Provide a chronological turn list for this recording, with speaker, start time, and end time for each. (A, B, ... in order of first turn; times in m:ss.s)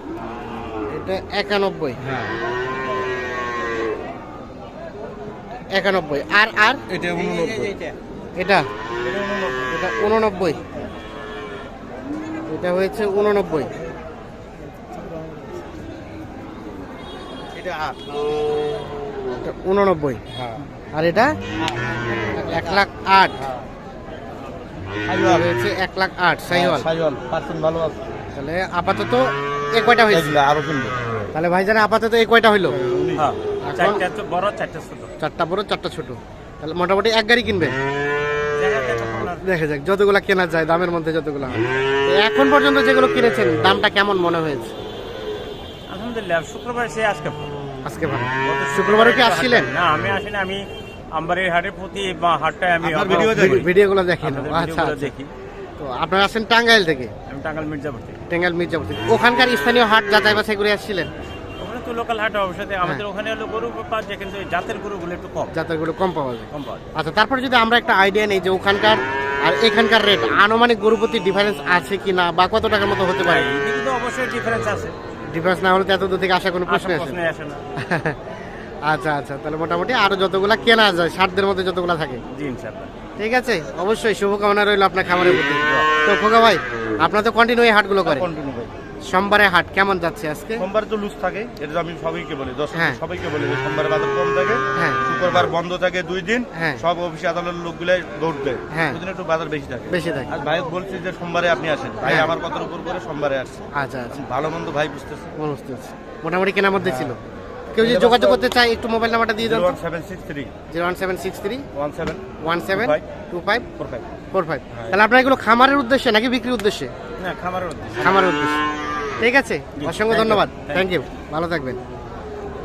0:00.9-0:02.0 A
0:05.7-0:06.8 A
0:06.9-0:07.8 B
0:08.4-0:08.7 A
0:09.0-0:09.8 B
0:09.7-0:10.6 A
0:12.5-0:13.8 A
0:17.6-0:18.0 B
0:19.4-0:20.2 A
0:20.3-0:20.6 B
0:20.9-0:21.4 A
0:22.4-0:23.4 A
0:25.1-0:25.5 B
0:25.2-0:26.9 A
0:26.5-0:28.0 B
0:28.3-0:30.4 A
0:30.1-0:31.0 B
0:31.3-0:32.8 A
0:32.7-0:33.3 B
0:33.2-0:35.1 C
0:33.6-0:34.0 A
0:35.2-0:37.8 A
0:38.6-0:39.4 C
0:39.4-0:44.7 A
0:45.9-0:47.5 C
0:47.8-0:49.7 A
0:48.4-0:55.3 C
0:52.8-0:53.6 B
0:53.1-0:55.1 A
0:55.8-0:57.1 A
0:57.3-0:58.2 C
0:58.3-1:01.1 A
1:01.6-1:05.5 C
1:05.5-1:13.5 A
1:06.5-1:06.8 C
1:13.2-1:15.0 C
1:15.3-1:17.2 A
1:16.7-1:17.6 C
1:17.8-1:22.2 A
1:22.3-1:22.9 C
1:23.2-1:28.3 A
1:28.0-1:28.7 B
1:29.1-1:30.7 A
1:30.6-1:45.3 B
1:32.7-1:33.0 A
1:34.8-1:35.1 A
1:36.6-1:36.8 A
1:38.7-1:39.0 A
1:39.9-1:40.3 A
1:42.0-1:42.4 A
1:43.7-1:44.2 A
1:45.4-1:47.2 A
1:46.8-1:47.2 B
1:47.7-1:49.8 A
1:47.8-1:48.4 B
1:49.4-1:50.5 B
1:50.7-1:51.6 A
1:51.7-1:52.2 B
1:52.4-1:53.7 A
1:52.7-1:53.0 B
1:53.8-1:54.1 B
1:54.3-1:56.9 A
1:57.2-1:58.2 C
1:58.0-1:58.6 A
1:59.2-2:01.8 A
1:59.8-2:00.9 C